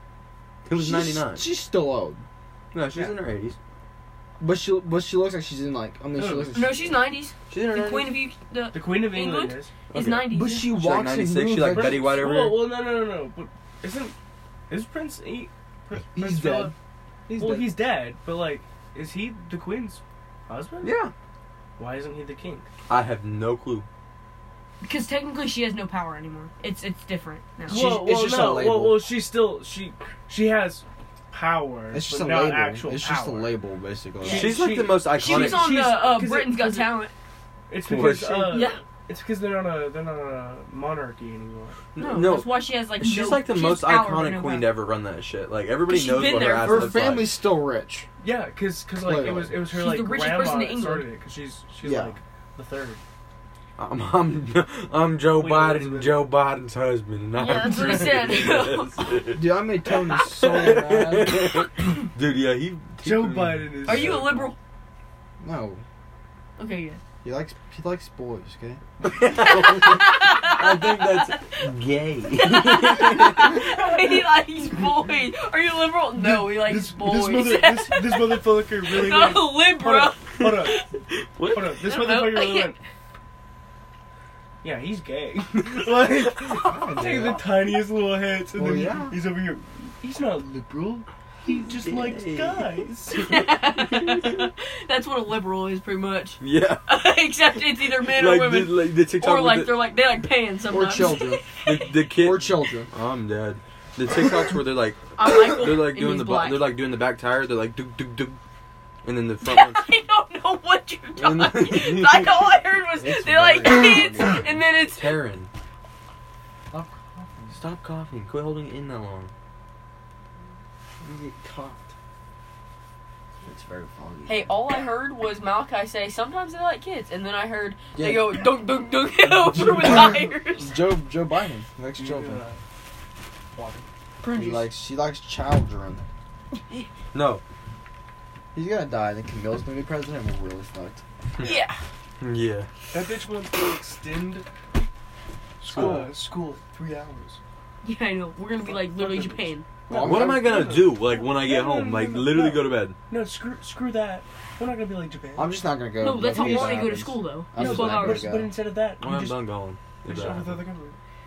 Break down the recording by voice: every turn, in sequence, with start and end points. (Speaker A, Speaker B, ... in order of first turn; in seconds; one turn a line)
Speaker A: 0.7-1.4
Speaker B: 0.8-2.2
Speaker A: 2.7-3.6
Speaker B: 4.4-6.9
Speaker C: 6.1-6.7
Speaker D: 6.5-10.7
Speaker A: 7.5-8.1
Speaker C: 8.7-9.7
Speaker A: 9.9-12.7
Speaker B: 10.3-12.2
Speaker C: 11.6-14.1
Speaker C: 14.7-16.7
Speaker B: 16.1-16.7
Speaker B: 17.3-17.7
Speaker C: 17.3-20.9
Speaker A: 20.8-21.1
Speaker C: 21.8-22.7
Speaker A: 22.9-23.9
Speaker D: 24.8-27.8
Speaker B: 27.7-29.1
Speaker C: 27.7-33.6
Speaker B: 31.9-34.6
Speaker C: 34.2-37.0
Speaker A: 34.2-35.7
Speaker D: 35.1-37.1
Speaker C: 37.7-41.8
Speaker A: 37.8-38.6
Speaker D: 38.5-38.8
Speaker A: 41.9-47.3
Speaker D: 42.0-44.7
Speaker D: 45.9-47.0
Speaker B: 46.2-48.1
Speaker C: 48.2-53.0
Speaker B: 49.0-49.6
Speaker D: 49.6-51.1
Speaker B: 51.8-52.1
Speaker A: 53.8-64.4
Speaker C: 55.4-56.2
Speaker D: 57.3-59.1
Speaker C: 57.5-58.5
Speaker B: 59.3-61.6
Speaker C: 63.0-64.5
Speaker D: 63.8-64.5
Speaker B: 65.4-65.8
Speaker D: 66.6-67.0
Speaker B: 67.2-68.8
Speaker A: 69.0-73.6
Speaker D: 69.3-71.6
Speaker D: 72.4-80.9
Speaker C: 76.2-80.8
Speaker A: 81.1-81.7
Speaker C: 81.5-82.8
Speaker D: 81.7-82.8
Speaker C: 84.6-93.5
Speaker B: 86.5-87.5
Speaker B: 88.5-89.2
Speaker A: 91.5-92.8
Speaker D: 93.2-101.9
Speaker A: 96.4-96.8
Speaker A: 97.8-99.8
Speaker B: 100.7-101.5
Speaker A: 101.6-108.4
Speaker B: 102.2-102.9
Speaker D: 105.2-106.7
Speaker A: 109.0-109.9
Speaker D: 109.4-115.2
Speaker A: 111.2-112.5
Speaker B: 113.0-114.6
Speaker A: 114.2-115.5
Speaker B: 116.7-117.6
Speaker A: 117.5-119.3
Speaker B: 121.0-121.9
Speaker B: 123.4-124.6
Speaker D: 124.2-130.8
Speaker B: 127.9-128.5
Speaker B: 129.4-132.4
Speaker C: 131.9-132.6
Speaker C: 133.5-133.8
Speaker D: 134.2-134.7
Speaker B: 134.3-136.1
Speaker A: 137.1-137.4
Speaker B: 138.5-141.0
Speaker D: 141.4-141.8
Speaker A: 142.2-142.7
Speaker C: 142.9-144.4
Speaker C: 145.6-147.4
Speaker A: 145.6-146.1
Speaker B: 145.7-146.0
Speaker D: 147.8-149.6
Speaker C: 148.6-155.6
Speaker B: 149.9-150.7
Speaker A: 149.9-152.9
Speaker B: 155.3-158.5
Speaker D: 156.0-158.3
Speaker C: 156.3-156.9
Speaker C: 157.6-159.4
Speaker A: 159.0-160.7
Speaker C: 160.0-161.0